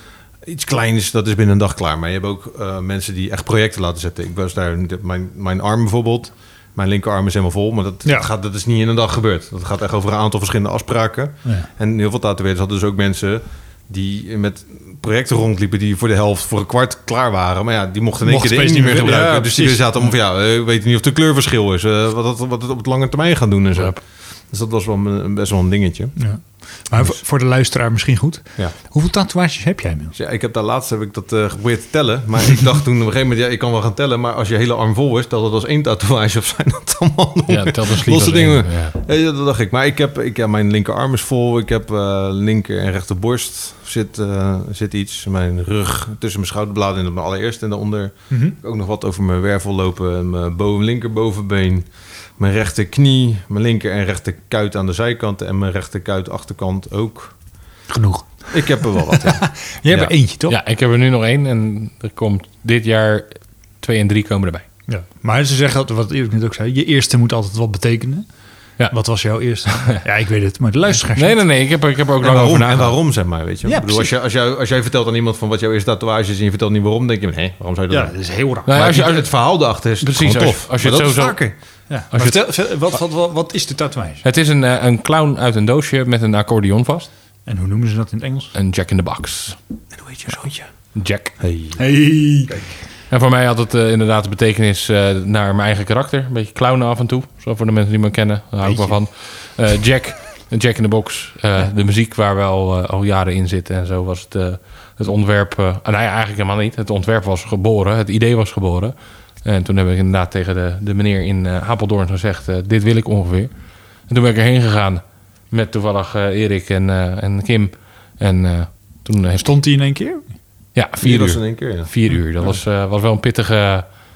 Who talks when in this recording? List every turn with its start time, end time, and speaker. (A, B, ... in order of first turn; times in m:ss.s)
0:00.4-0:26.2 A
0:08.0-0:08.3 B
0:18.2-0:20.1 B
0:26.2-0:30.1 B
0:30.1-0:51.8 A
0:37.5-0:39.0 C
0:48.3-0:48.6 B
0:52.4-0:57.3 A
0:57.9-1:00.6 B
0:58.5-1:00.1 A
1:00.5-1:04.6 C
1:04.9-1:08.3 B
1:08.9-1:11.4 B
1:09.7-1:10.0 C
1:11.1-1:13.0 C
1:12.2-1:18.1 A
1:13.6-1:14.1 B
1:17.9-1:18.9 B
1:18.7-1:21.4 C
1:18.7-1:21.5 A
1:21.9-1:24.2 B
1:22.1-1:22.4 C
1:24.2-1:27.1 C
1:27.4-1:28.5 B
1:28.5-1:29.6 C
1:30.0-1:30.7 A
1:30.9-1:31.4 C
1:31.4-1:31.8 A
1:31.8-1:32.6 B
1:33.1-1:53.5 C
1:38.6-1:39.0 B
1:54.1-1:59.5 C
1:59.4-2:00.2 B
2:00.7-2:03.9 C
2:01.0-2:01.9 A